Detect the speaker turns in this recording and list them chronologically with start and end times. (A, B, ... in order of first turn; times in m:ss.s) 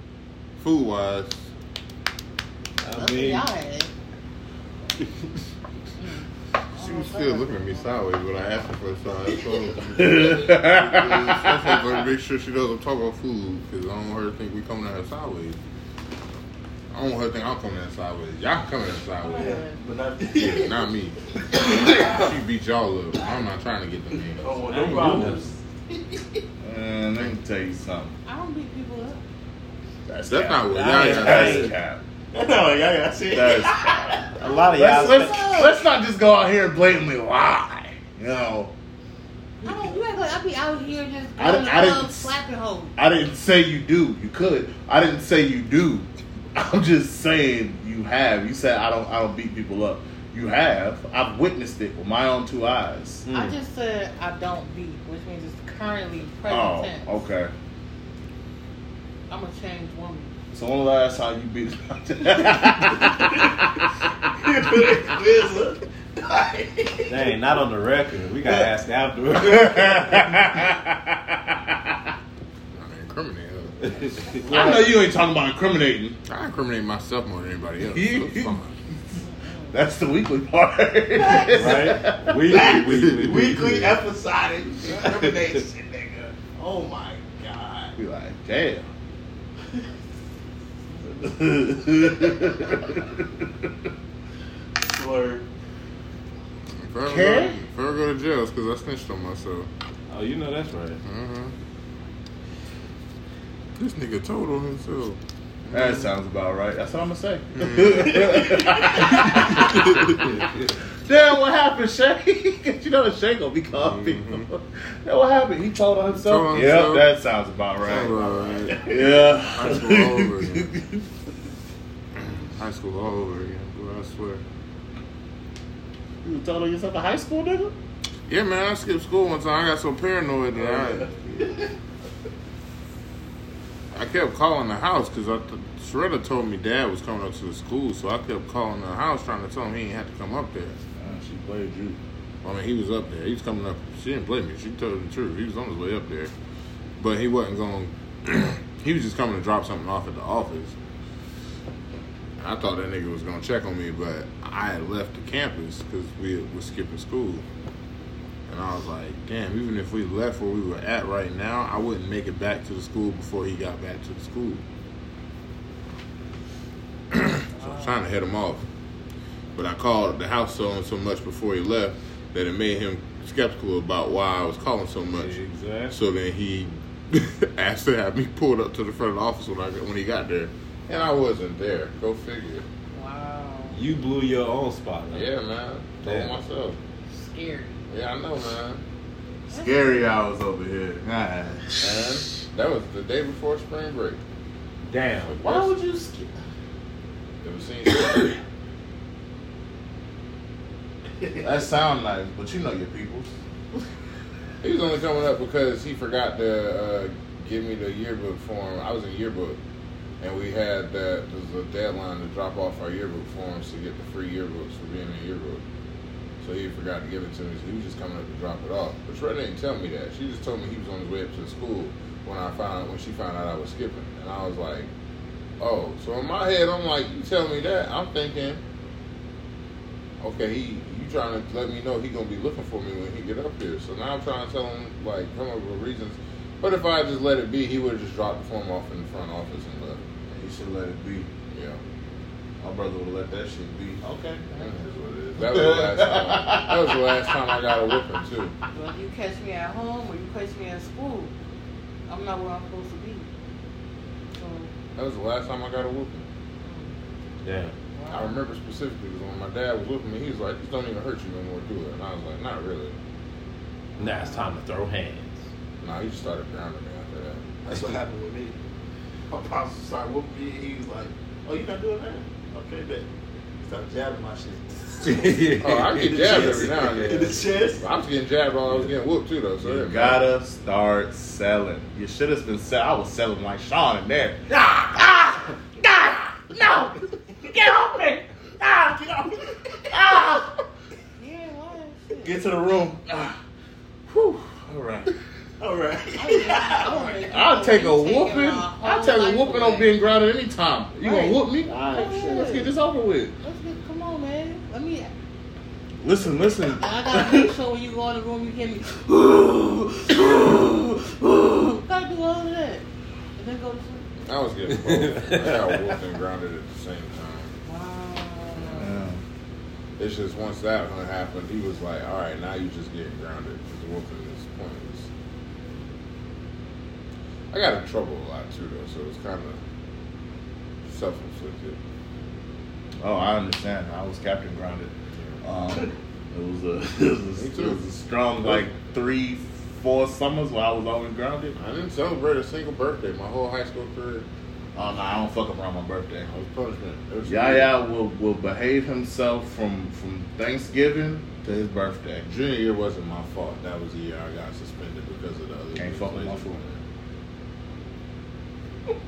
0:00.6-0:01.5 A
0:02.8-0:03.5 B
0:02.9-0:03.9 C
0:06.0-0:07.9 C
0:06.7-0:15.6 A
0:09.9-0:12.0 D
0:16.9-0:19.6 A
0:19.2-0:19.8 C
0:19.4-0:20.8 E
0:20.3-0:24.5 A
0:21.5-0:22.3 E
0:24.4-0:26.4 E
0:24.6-0:25.5 B
0:26.6-0:28.1 D
0:28.2-0:29.2 C
0:30.0-0:32.0 D
0:30.2-0:31.7 A
0:30.7-0:31.7 B
0:32.3-0:35.8 E
0:33.3-0:38.7 D
0:34.4-0:35.6 B
0:39.6-0:42.9 C
0:41.4-0:42.3 D
0:43.0-0:53.2 D
0:53.2-0:53.6 B
0:53.3-0:57.1 C
0:56.5-0:57.5 D
0:59.3-1:00.3 C
1:00.5-1:03.5 D
1:03.0-1:03.6 E
1:04.4-1:07.2 E
1:07.1-1:10.4 B
1:08.4-1:08.7 D
1:09.3-1:12.1 D
1:12.7-1:13.9 A
1:13.8-1:14.4 B
1:14.4-1:16.2 D
1:14.5-1:14.8 E
1:16.2-1:18.7 A
1:17.9-1:18.6 D
1:19.3-1:19.8 C
1:19.7-1:22.7 D
1:21.2-1:21.8 E
1:21.4-1:24.0 B
1:22.4-1:28.0 E
1:23.1-1:23.8 A
1:28.0-1:28.8 D
1:31.2-1:33.7 D
1:34.8-1:35.5 E
1:36.8-1:39.7 A
1:37.0-1:37.6 D
1:40.1-1:41.0 B
1:41.0-1:41.5 A
1:43.8-1:46.1 A
1:45.7-1:50.4 D
1:47.5-1:48.2 A
1:47.9-1:49.5 E
1:49.1-1:50.3 A
1:51.0-1:58.2 D
1:53.8-1:54.5 A
1:56.1-1:57.1 A
1:57.8-1:59.0 A
1:57.9-1:59.3 E
1:58.8-2:01.0 D
1:59.5-2:00.7 A
2:02.1-2:04.4 A
2:06.2-2:07.7 D
2:08.3-2:11.1 A
2:10.6-2:11.7 E
2:13.9-2:20.8 A
2:21.0-2:22.0 D
2:22.4-2:26.3 A
2:27.0-2:30.7 A
2:32.4-2:37.4 A
2:38.5-2:44.6 A
2:47.1-2:48.6 A
2:47.6-2:47.9 C
2:49.5-2:55.3 A
2:55.1-2:56.0 B
2:55.9-3:02.6 A
3:02.9-3:03.8 C
3:03.7-3:05.3 B
3:05.1-3:06.8 A
3:06.0-3:06.4 B
3:07.1-3:07.8 C
3:07.9-3:08.8 A
3:09.5-3:09.8 C
3:09.5-3:11.6 D
3:11.8-3:14.2 A
3:14.8-3:15.7 B
3:15.2-3:15.7 A
3:15.5-3:16.3 D
3:17.4-3:18.4 A
3:21.4-3:23.3 D
3:24.6-3:29.6 A
3:30.2-3:35.6 A
3:36.4-3:44.9 A
3:45.6-3:48.6 A
3:50.2-4:00.0 A
4:00.3-4:01.3 D
4:01.5-4:01.8 A
4:02.6-4:04.4 D
4:04.5-4:04.8 C
4:04.6-4:08.6 A
4:05.4-4:07.3 D
4:08.7-4:11.3 C
4:12.1-4:13.3 C
4:14.4-4:14.7 C
4:15.0-4:16.2 A
4:16.6-4:16.9 C
4:17.4-4:17.7 B
4:17.9-4:18.4 C
4:18.1-4:23.0 A
4:24.0-4:24.5 C
4:24.0-4:25.4 B
4:25.8-4:28.0 A
4:27.6-4:28.6 E
4:29.3-4:33.1 E
4:33.6-4:37.8 E
4:35.0-4:37.3 B
4:35.4-4:40.2 A
4:39.6-4:49.3 D
4:49.9-4:50.5 D
4:51.2-4:52.4 C
4:52.2-4:53.4 D
4:54.1-4:55.1 D
4:55.6-4:57.2 E
4:56.2-4:59.9 C
4:57.3-5:03.3 D
5:01.0-5:02.7 C
5:03.4-5:05.1 C
5:06.0-5:06.8 D
5:06.6-5:14.0 C
5:14.2-5:17.5 A
5:14.9-5:15.4 B
5:17.6-5:19.0 C
5:18.6-5:19.2 D
5:20.0-5:25.1 A
5:27.5-5:29.6 A
5:30.8-5:31.8 A
5:33.0-5:41.6 D
5:37.4-5:37.8 A
5:41.6-5:44.3 A
5:44.7-5:46.3 D
5:46.3-5:47.8 A
5:47.2-5:52.3 D
5:52.2-5:56.8 A
5:55.8-5:56.6 D